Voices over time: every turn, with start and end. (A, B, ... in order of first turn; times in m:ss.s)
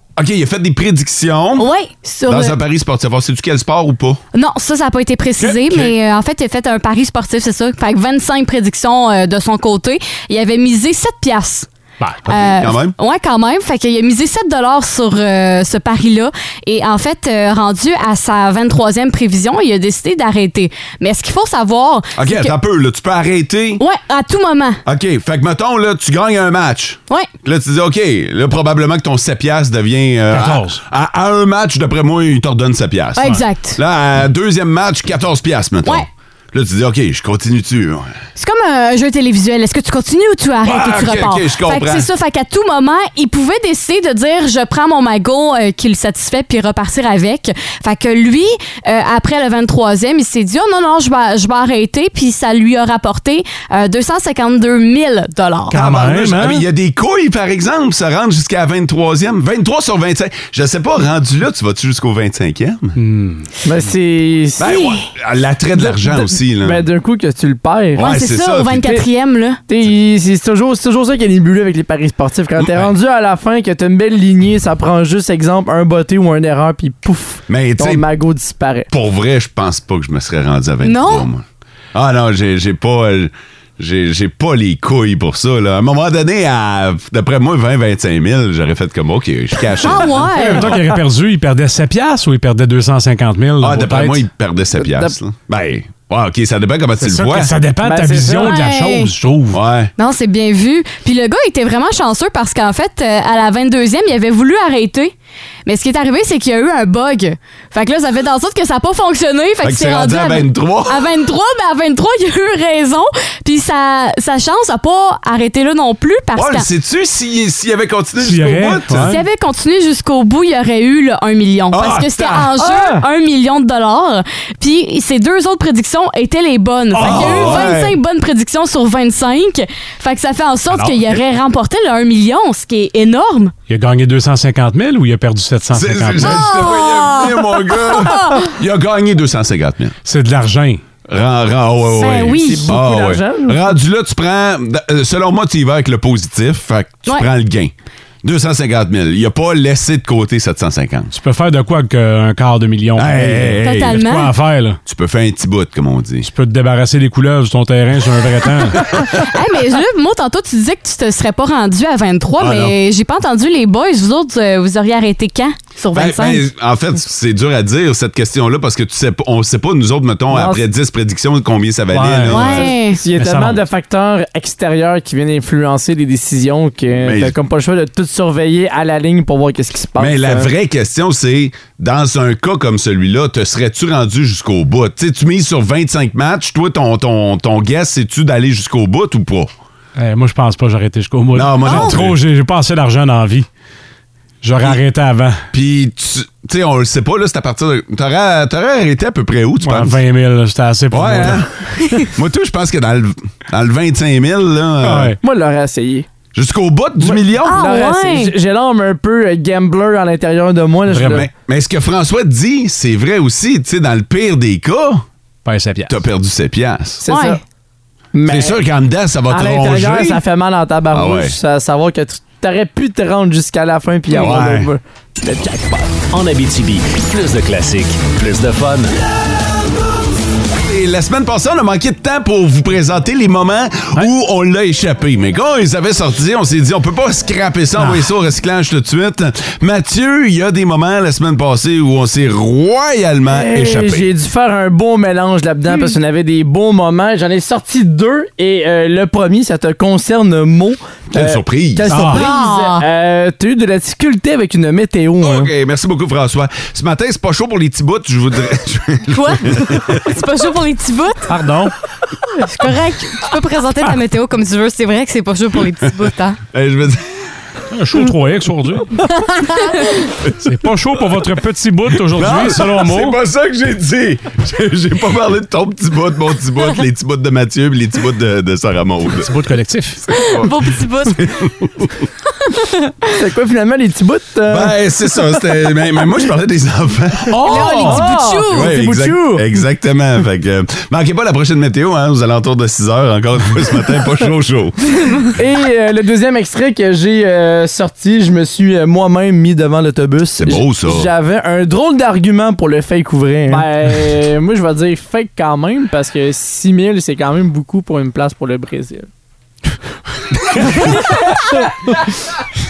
0:00.2-0:01.7 A
0:01.6-0:02.6 B
0:02.3-0:04.2 A
0:04.3-0:11.7 B
0:05.4-0:05.9 C
0:12.3-0:22.5 B
0:12.3-0:13.0 A
0:22.2-0:23.8 A
0:23.8-0:24.8 B
0:24.8-0:38.1 A
0:30.3-0:30.8 C
0:33.2-0:33.8 B
0:38.4-0:55.8 B
0:40.6-0:42.1 A
0:55.7-0:56.6 C
0:55.7-1:03.0 A
1:03.0-1:03.4 C
1:03.6-1:04.7 D
1:04.6-1:06.9 A
1:04.6-1:05.1 B
1:05.8-1:08.2 D
1:08.0-1:09.0 A
1:08.0-1:09.6 B
1:08.8-1:09.0 D
1:09.7-1:18.9 D
1:12.6-1:12.9 A
1:17.5-1:18.0 A
1:18.9-1:30.7 A
1:20.8-1:21.3 B
1:29.8-1:30.9 B
1:30.2-1:34.2 C
1:33.6-1:37.5 A
1:34.8-1:35.1 D
1:37.0-1:39.6 C
1:37.8-1:38.6 D
1:38.4-1:39.1 B
1:39.5-1:39.9 A
1:40.0-1:45.1 B
1:45.6-1:56.7 B
1:49.6-1:51.0 A
1:56.3-1:59.2 A
1:58.2-1:59.2 C
1:59.0-2:13.5 B
2:01.7-2:02.5 A
2:02.6-2:03.0 D
2:06.9-2:07.7 C
2:07.0-2:08.0 A
2:10.7-2:11.0 C
2:13.7-2:16.5 C
2:15.7-2:19.9 A
2:16.2-2:18.5 B
2:20.0-2:20.8 C
2:21.1-2:31.1 A
2:21.8-2:22.8 B
2:22.3-2:23.8 D
2:31.1-2:34.8 C
2:33.0-2:34.0 A
2:33.6-2:34.3 B
2:34.8-2:36.3 A
2:36.2-2:39.0 C
2:39.1-2:46.5 B
2:42.4-2:42.7 A
2:45.9-2:52.7 A
2:50.3-2:50.6 D
2:51.9-2:53.6 C
2:52.3-2:53.0 B
2:52.6-3:00.5 D
2:56.9-2:57.3 A
3:00.0-3:09.5 A
3:10.0-3:13.5 C
3:11.3-3:12.2 A
3:11.6-3:12.0 B
3:14.4-3:15.4 C
3:15.5-3:20.0 A
3:19.6-3:21.4 C
3:20.9-3:25.2 A
3:24.8-3:25.2 C
3:25.2-3:26.1 D
3:26.3-3:27.7 A
3:27.0-3:31.3 D
3:27.4-3:28.3 B
3:30.9-3:31.2 C
3:31.0-3:35.0 A
3:35.4-3:36.0 C
3:35.9-3:37.0 A
3:37.0-3:37.4 D
3:37.1-3:37.4 B
3:38.1-3:38.6 D
3:38.2-3:40.2 A
3:39.3-3:45.9 D
3:40.9-3:41.4 A
3:44.1-3:44.7 A
3:46.1-3:48.9 E
3:50.7-4:04.1 A
4:03.3-4:15.5 D
4:11.1-4:11.9 A
4:11.9-4:12.2 C
4:11.9-4:12.8 B
4:15.2-4:20.0 A
4:19.1-4:21.3 B
4:21.3-4:21.7 C
4:22.3-4:26.4 B
4:26.5-4:27.1 A
4:27.7-4:29.2 C
4:29.1-4:30.1 B
4:30.3-4:33.2 C
4:32.1-4:39.3 A
4:39.2-4:40.0 C
4:40.1-4:41.5 B
4:40.1-4:40.5 A
4:41.2-4:41.7 A
4:42.4-4:42.9 B
4:43.1-4:44.8 D
4:44.5-4:47.9 A
4:47.3-4:48.0 C
4:47.4-4:48.7 B
4:47.4-4:49.5 D
4:48.5-4:54.9 A
4:55.3-5:09.1 D
5:00.4-5:01.1 A
5:10.5-5:12.0 D